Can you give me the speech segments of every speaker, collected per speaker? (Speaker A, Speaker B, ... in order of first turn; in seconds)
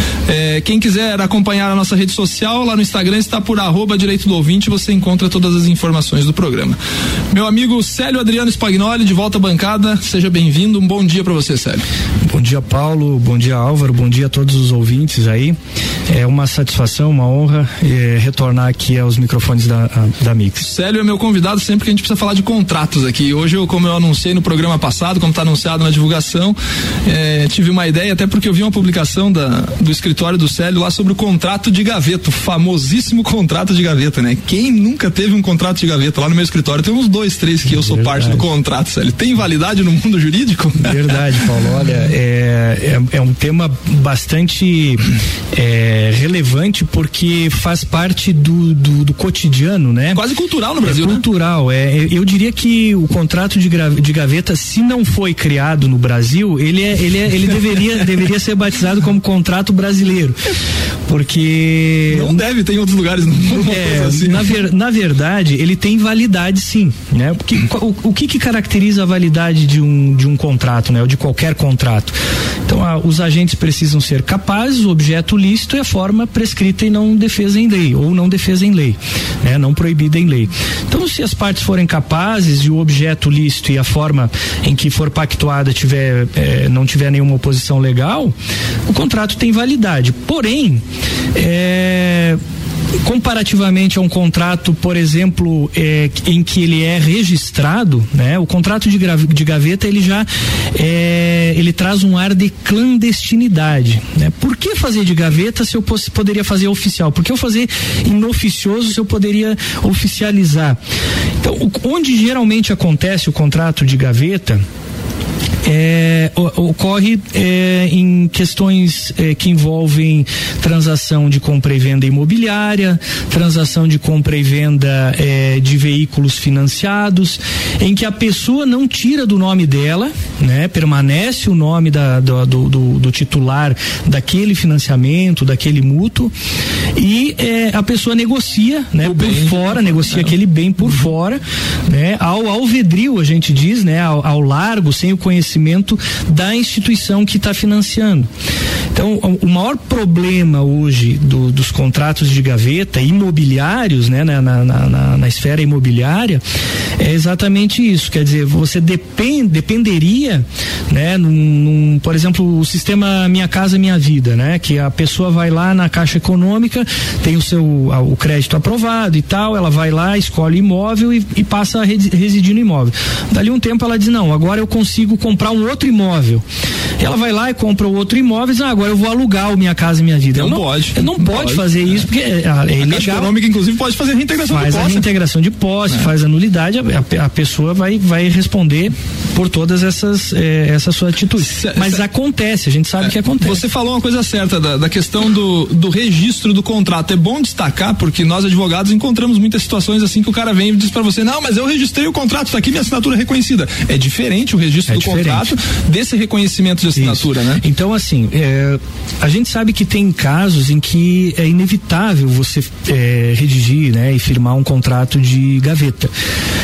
Speaker A: 0.3-6.8, 7.3-11.9, 20.6-41.3, 50.1-51.2, 62.1-64.6, 139.0-140.3, 180.3-182.1, 182.8-185.1, 191.4-192.0, 193.0-207.6
Speaker B: 12.3-15.6, 16.1-20.7, 37.6-38.5, 40.8-50.2, 50.8-60.5, 61.1-62.4, 63.5-88.3, 88.9-90.8, 91.3-92.4, 93.0-110.8, 111.4-114.6, 115.6-136.3, 137.0-148.3, 148.9-156.4, 157.0-176.4, 177.0-183.3, 184.5-193.6, 204.9-205.5, 206.9-216.1